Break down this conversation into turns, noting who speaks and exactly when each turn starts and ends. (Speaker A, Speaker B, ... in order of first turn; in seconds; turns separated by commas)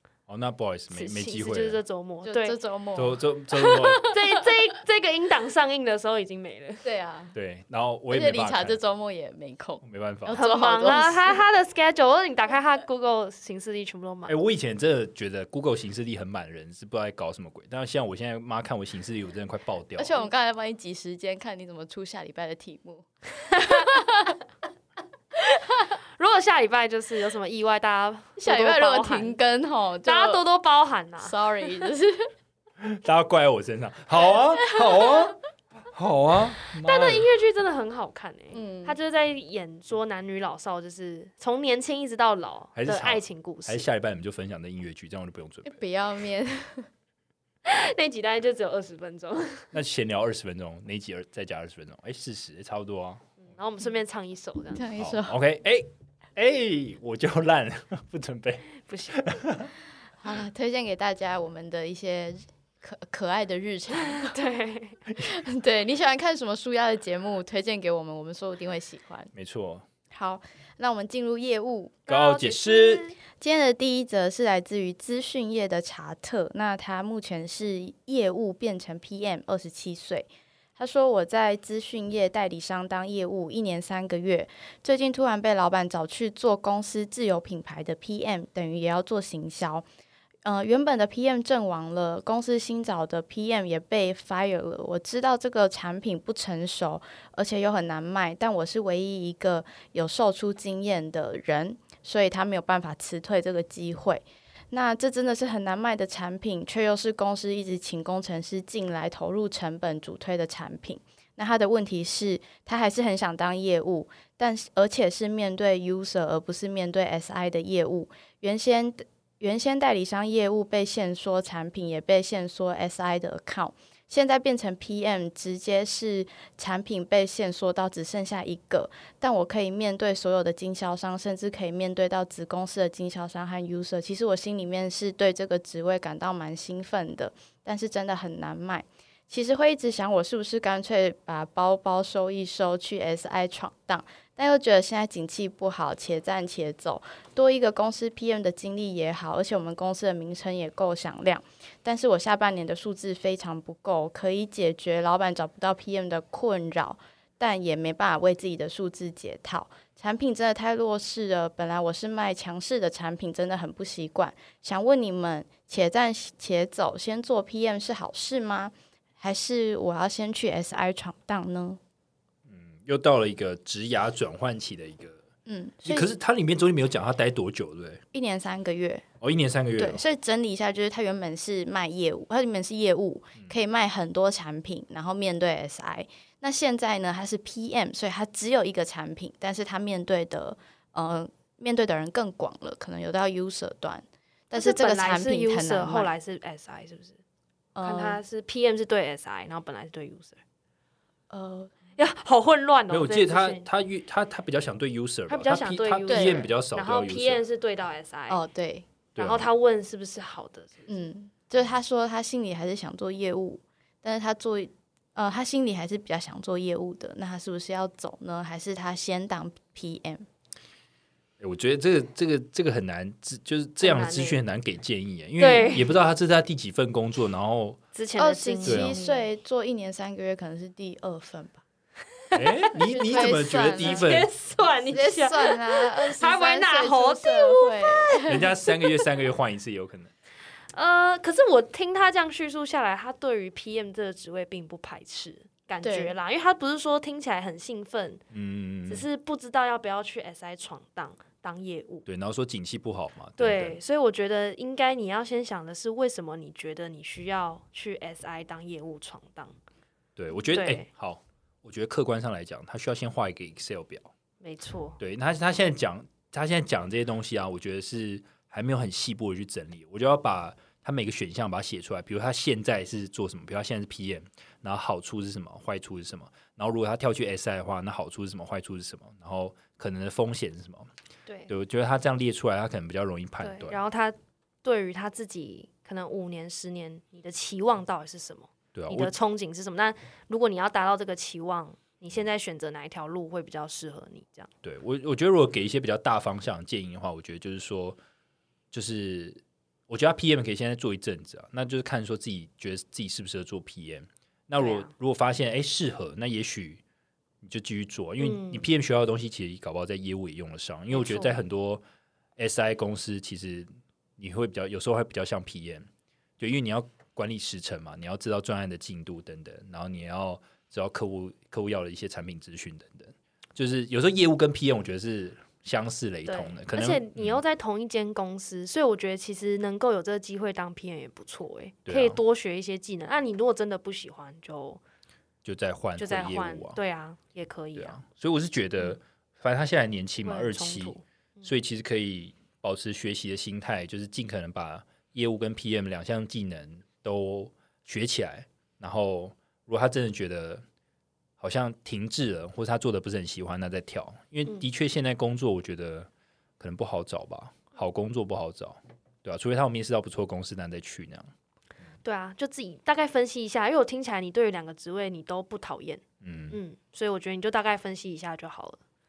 Speaker A: 0.3-1.8, Speaker B: 0.9-2.6, Speaker C: 2.2-4.1, Speaker A: 3.0-4.1, Speaker B: 3.6-6.9, Speaker C: 6.8-7.3, Speaker A: 7.3-8.8, Speaker C: 8.1-11.4, Speaker A: 9.8-10.4, Speaker B: 10.4-14.3, Speaker A: 14.3-20.2, Speaker C: 20.0-24.4, Speaker B: 23.6-23.9, Speaker B: 25.7-29.4, Speaker C: 28.4-30.4, Speaker B: 30.1-31.4, Speaker C: 31.2-32.3, Speaker A: 32.8-35.4, Speaker C: 34.6-35.2, Speaker A: 35.9-37.3, Speaker B: 36.8-43.9, Speaker C: 38.5-39.0, Speaker A: 42.8-45.8, Speaker C: 45.6-46.9, Speaker B: 47.6-49.7, Speaker A: 49.7-53.4, Speaker B: 53.4-54.9, Speaker C: 54.8-55.4, Speaker A: 55.0-59.7, Speaker B: 58.8-59.2, Speaker C: 60.2-64.4, Speaker B: 64.0-65.0, Speaker C: 65.2-69.3, Speaker A: 69.3-69.8, Speaker C: 70.1-72.1, Speaker B: 72.1-73.2, Speaker A: 72.1-73.0, Speaker C: 73.4-89.8, Speaker C: 90.5-171.8, Speaker A: 172.5-175.2, Speaker C: 175.5-176.1, Speaker A: 175.8-178.0, Speaker C: 178.1-179.1, Speaker A: 179.2-180.0, Speaker C: 179.8-196.1, Speaker B: 194.5-197.2, Speaker C: 197.8-198.2, Speaker B: 197.8-200.4, Speaker C: 201.3-201.8, Speaker B: 202.0-203.7, Speaker A: 202.9-207.4, Speaker B: 205.3-208.4, Speaker C: 206.1-206.5, Speaker C: 208.3-208.9, Speaker A: 209.2-209.5, Speaker B: 209.2-211.0, Speaker C: 210.9-220.3, Speaker A: 221.4-227.8, Speaker B: 223.8-224.4, Speaker B: 225.4-225.9, Speaker B: 227.9-229.2, Speaker C: 228.2-231.6, Speaker A: 228.7-229.0, Speaker A: 232.3-234.3, Speaker B: 232.3-239.0, Speaker C: 233.0-234.1, Speaker C: 234.9-238.5, Speaker A: 238.3-240.1, Speaker B: 240.7-248.2, Speaker C: 245.8-246.1, Speaker A: 248.3-249.1, Speaker B: 248.9-252.1, Speaker A: 252.1-253.8, Speaker B: 253.4-259.6, Speaker A: 260.2-264.1, Speaker B: 260.5-260.9, Speaker B: 264.4-265.0, Speaker A: 265.0-280.9, Speaker B: 281.3-281.5, Speaker A: 281.5-283.8, Speaker B: 283.4-294.5, Speaker A: 288.8-289.1, Speaker A: 294.6-298.0, Speaker A: 298.7-306.8, Speaker B: 304.6-304.9, Speaker A: 307.4-311.8, Speaker B: 308.2-308.7, Speaker B: 310.9-311.4, Speaker A: 312.4-315.9, Speaker A: 316.4-327.4, Speaker B: 326.3-334.8, Speaker A: 331.9-332.2, Speaker A: 335.4-336.8, Speaker B: 336.0-338.0, Speaker A: 337.8-350.6, Speaker B: 340.2-341.4, Speaker A: 351.4-361.3, Speaker B: 362.0-368.8, Speaker A: 366.2-366.6